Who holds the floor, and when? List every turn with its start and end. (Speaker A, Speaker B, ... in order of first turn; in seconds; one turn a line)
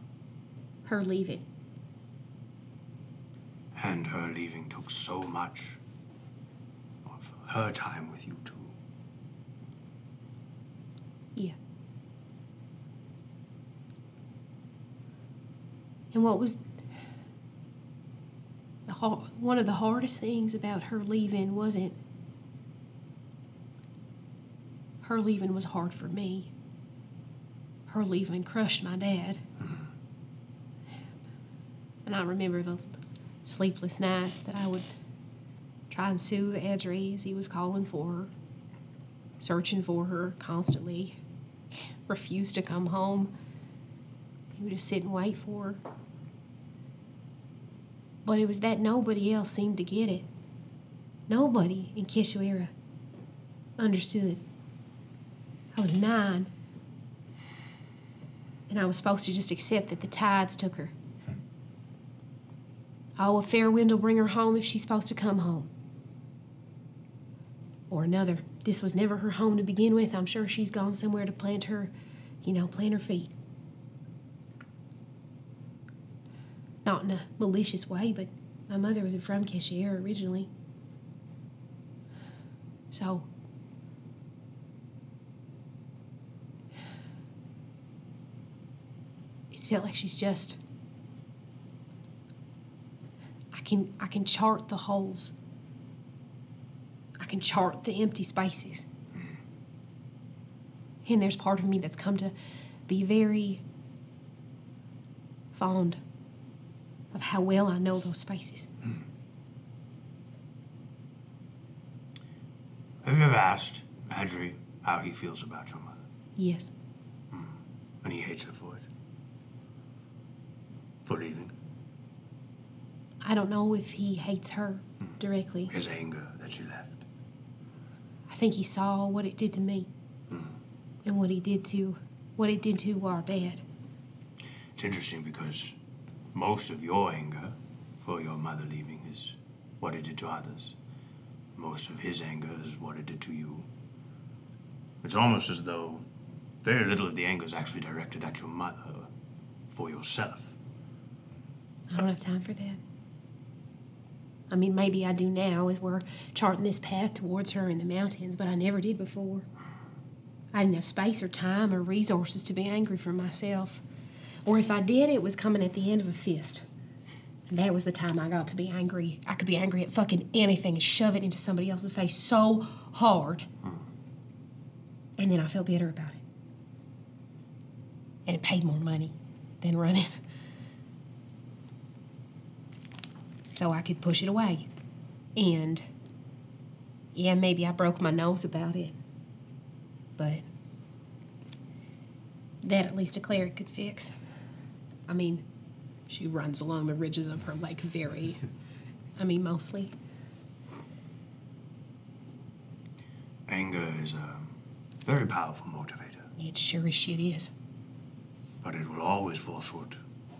Speaker A: 0.8-1.4
Speaker B: 3.8-5.8
Speaker B: 7.0-8.7
Speaker A: 16.1-16.6
Speaker A: 18.9-22.0
Speaker A: 25.0-26.5
Speaker A: 27.9-29.4
Speaker A: 32.1-34.9
Speaker A: 35.9-38.3
Speaker A: 39.4-41.2
Speaker A: 42.1-43.3
Speaker A: 44.6-45.8
Speaker A: 48.2-50.3
Speaker A: 51.3-52.7
Speaker A: 53.8-54.4
Speaker A: 55.7-56.5
Speaker A: 58.7-60.9
Speaker A: 63.2-65.7
Speaker A: 67.9-71.9
Speaker A: 72.4-73.3
Speaker A: 76.8-80.5
Speaker A: 82.9-83.3
Speaker A: 89.5-90.6
Speaker A: 93.5-95.3
Speaker A: 97.2-98.9
Speaker A: 101.0-102.3
Speaker A: 102.9-103.6
Speaker A: 105.5-106.0
Speaker A: 107.1-108.7
Speaker B: 113.0-116.0
Speaker A: 116.4-116.7
Speaker B: 117.3-118.9
Speaker B: 121.0-121.5
Speaker A: 123.2-125.7
Speaker B: 125.7-127.0
Speaker A: 128.3-129.9
Speaker A: 131.1-133.6
Speaker B: 134.8-135.8
Speaker B: 136.3-140.8
Speaker B: 141.6-143.7
Speaker B: 145.0-146.0
Speaker B: 146.6-149.1
Speaker B: 149.7-150.5
Speaker A: 151.9-152.8
Speaker A: 154.5-159.5
Speaker A: 160.5-163.8
Speaker A: 164.4-166.7
Speaker A: 167.5-173.5
Speaker A: 175.2-176.2
Speaker A: 178.3-180.2
Speaker A: 183.5-184.7
Speaker A: 185.4-185.8
Speaker A: 187.1-188.9
Speaker A: 190.2-190.4
Speaker A: 192.6-194.1
Speaker A: 195.1-195.4
Speaker A: 196.1-198.4
Speaker A: 199.2-199.9
Speaker B: 203.5-204.5
Speaker B: 205.1-206.3
Speaker A: 206.4-207.5
Speaker B: 208.6-210.0